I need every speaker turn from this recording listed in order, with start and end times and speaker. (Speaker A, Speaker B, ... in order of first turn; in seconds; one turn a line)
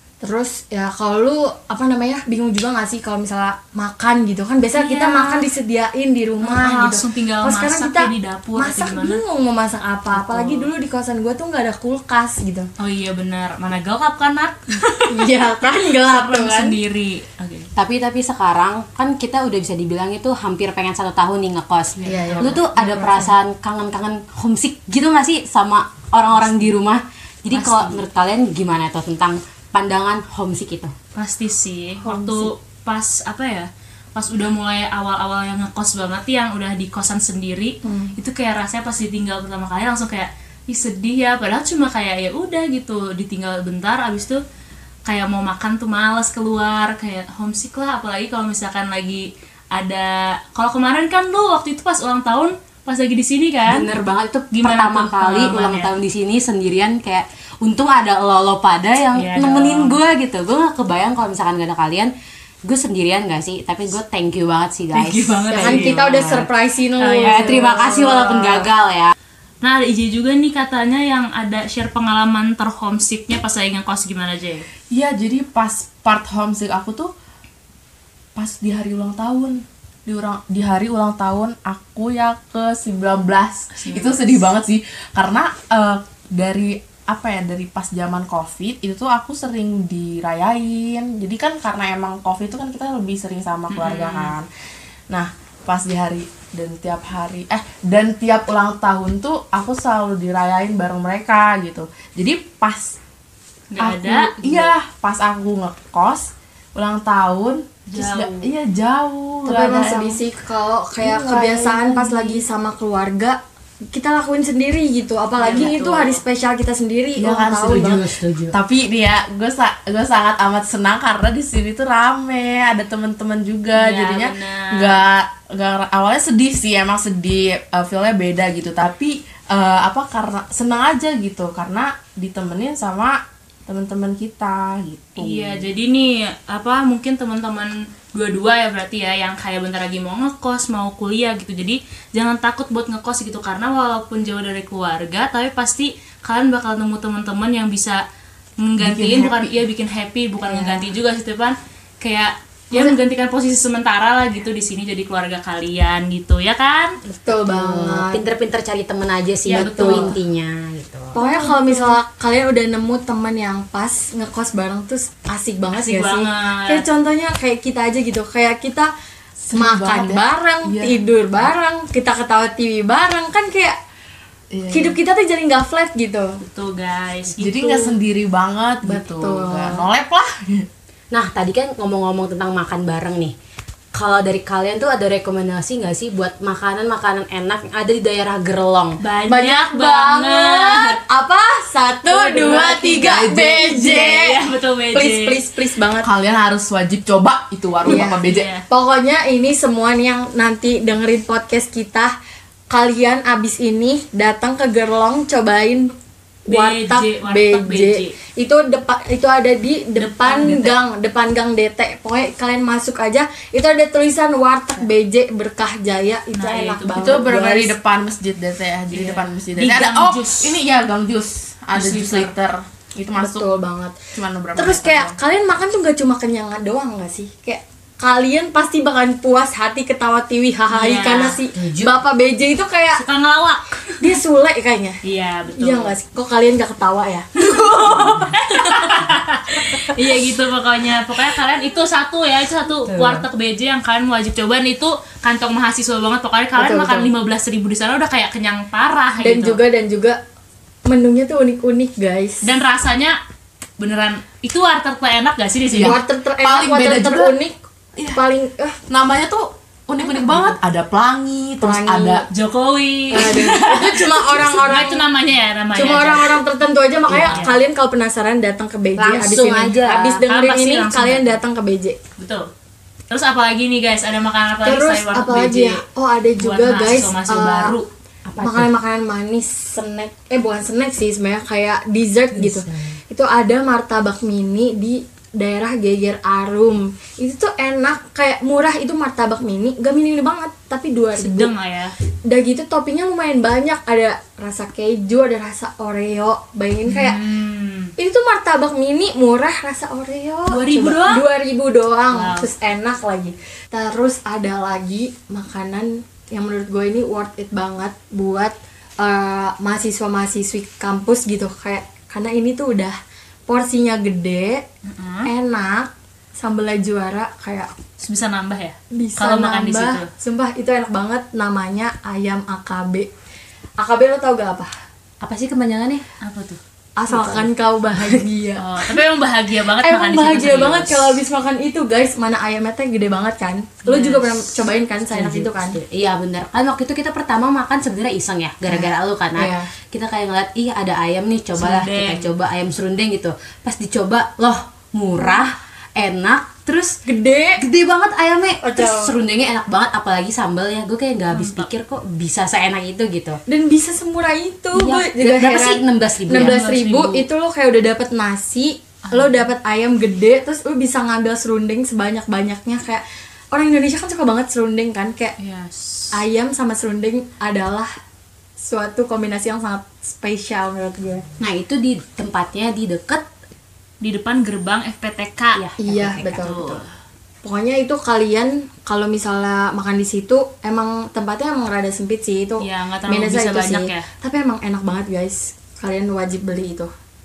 Speaker A: 0.2-12.7
Speaker B: 4.7-5.5
Speaker B: 6.4-9.2
Speaker B: 10.3-10.6
Speaker B: 12.8-15.1
Speaker A: 15.1-16.8
Speaker B: 15.8-17.7
Speaker C: 17.8-30.9
Speaker B: 22.0-23.1
Speaker A: 22.1-23.3
Speaker B: 26.4-26.7
Speaker B: 27.5-28.0
Speaker B: 31.1-44.4
Speaker A: 32.0-32.5
Speaker A: 37.8-38.1
Speaker B: 45.1-53.9
Speaker C: 53.7-62.1
Speaker B: 54.5-55.9
Speaker B: 59.1-60.0
Speaker C: 62.6-66.5
Speaker B: 64.9-66.3
Speaker A: 65.5-68.7
Speaker B: 67.0-68.3
Speaker C: 67.2-69.1
Speaker B: 69.6-74.6
Speaker D: 74.9-77.1
Speaker D: 78.3-94.5
Speaker B: 83.7-84.5
Speaker B: 93.7-94.3
Speaker D: 95.1-103.0
Speaker B: 103.7-104.7
Speaker D: 103.8-110.2
Speaker B: 107.9-108.5
Speaker A: 109.4-113.4
Speaker D: 111.0-112.4
Speaker A: 113.9-118.0
Speaker B: 115.4-116.2
Speaker D: 117.2-135.6
Speaker C: 117.7-118.6
Speaker B: 123.7-125.0
Speaker B: 135.2-148.0
Speaker B: 148.6-156.9
Speaker D: 148.8-149.6
Speaker A: 150.4-150.9
Speaker A: 157.1-158.2
Speaker C: 157.3-161.2
Speaker B: 159.4-160.2
Speaker A: 159.6-160.1
Speaker A: 161.1-168.9
Speaker D: 161.2-161.8
Speaker B: 165.8-166.8
Speaker D: 169.4-171.0
Speaker A: 169.5-173.8
Speaker D: 174.5-174.9
Speaker A: 174.7-176.4
Speaker B: 176.4-178.0
Speaker D: 177.4-180.7
Speaker A: 178.8-179.9
Speaker C: 181.1-183.3
Speaker C: 183.9-189.0
Speaker B: 189.0-191.0
Speaker A: 189.3-194.3
Speaker B: 192.1-192.9
Speaker D: 192.4-194.2
Speaker B: 193.9-195.4
Speaker A: 194.9-196.1
Speaker D: 196.0-198.5
Speaker A: 197.8-202.1
Speaker B: 198.2-198.6
Speaker A: 202.7-205.9
Speaker A: 206.5-217.7
Speaker B: 206.5-208.1
Speaker B: 210.0-210.7
Speaker B: 216.3-217.2
Speaker D: 216.9-223.5
Speaker B: 218.9-220.5
Speaker B: 221.7-222.3
Speaker A: 223.1-224.0
Speaker D: 224.1-225.2
Speaker A: 224.6-233.0
Speaker B: 230.7-231.4
Speaker C: 231.6-231.9
Speaker B: 232.9-234.1
Speaker A: 234.0-235.0
Speaker B: 235.0-235.9
Speaker A: 235.6-237.3
Speaker B: 237.4-249.6
Speaker C: 242.8-243.2
Speaker A: 246.6-247.1
Speaker A: 249.2-250.2
Speaker A: 250.8-252.5
Speaker B: 252.4-253.2
Speaker B: 253.8-256.0
Speaker D: 255.7-257.4
Speaker A: 255.7-257.5
Speaker A: 258.1-258.8
Speaker D: 258.9-262.2
Speaker A: 260.2-260.5
Speaker A: 261.6-262.3
Speaker B: 262.3-266.4
Speaker A: 263.1-265.1
Speaker A: 265.7-272.0
Speaker C: 267.1-267.5
Speaker B: 267.2-267.6
Speaker C: 269.0-270.2
Speaker B: 270.3-271.4
Speaker B: 272.2-272.4
Speaker B: 273.1-275.8
Speaker A: 274.6-277.8
Speaker B: 276.4-277.9
Speaker C: 278.3-278.7
Speaker A: 278.4-291.5
Speaker C: 282.3-283.0
Speaker B: 291.2-291.9
Speaker A: 292.3-297.2
Speaker B: 296.9-297.9
Speaker A: 298.0-312.9
Speaker B: 300.5-301.2
Speaker B: 302.1-302.5
Speaker A: 313.5-314.6
Speaker B: 314.9-315.3
Speaker A: 315.2-317.7
Speaker B: 318.0-320.1
Speaker A: 318.9-323.1
Speaker A: 323.8-324.7
Speaker C: 325.2-326.0
Speaker B: 326.2-326.6
Speaker A: 327.0-329.0
Speaker C: 327.1-327.5
Speaker B: 328.6-331.1
Speaker A: 329.8-335.8
Speaker B: 333.8-334.4
Speaker C: 335.1-347.0
Speaker A: 338.6-339.7
Speaker B: 341.6-342.3
Speaker A: 347.1-347.6
Speaker C: 347.6-353.4
Speaker A: 348.6-349.2
Speaker B: 351.3-351.7
Speaker A: 353.5-365.3
Speaker C: 354.7-356.6
Speaker B: 356.3-357.2
Speaker B: 359.0-359.5
Speaker B: 365.4-366.1
Speaker A: 366.2-367.9
Speaker A: 368.6-371.2
Speaker C: 371.4-373.2
Speaker B: 374.0-375.6
Speaker C: 375.6-376.5
Speaker A: 375.8-376.8
Speaker B: 376.4-376.9
Speaker A: 377.4-386.9
Speaker B: 382.6-384.1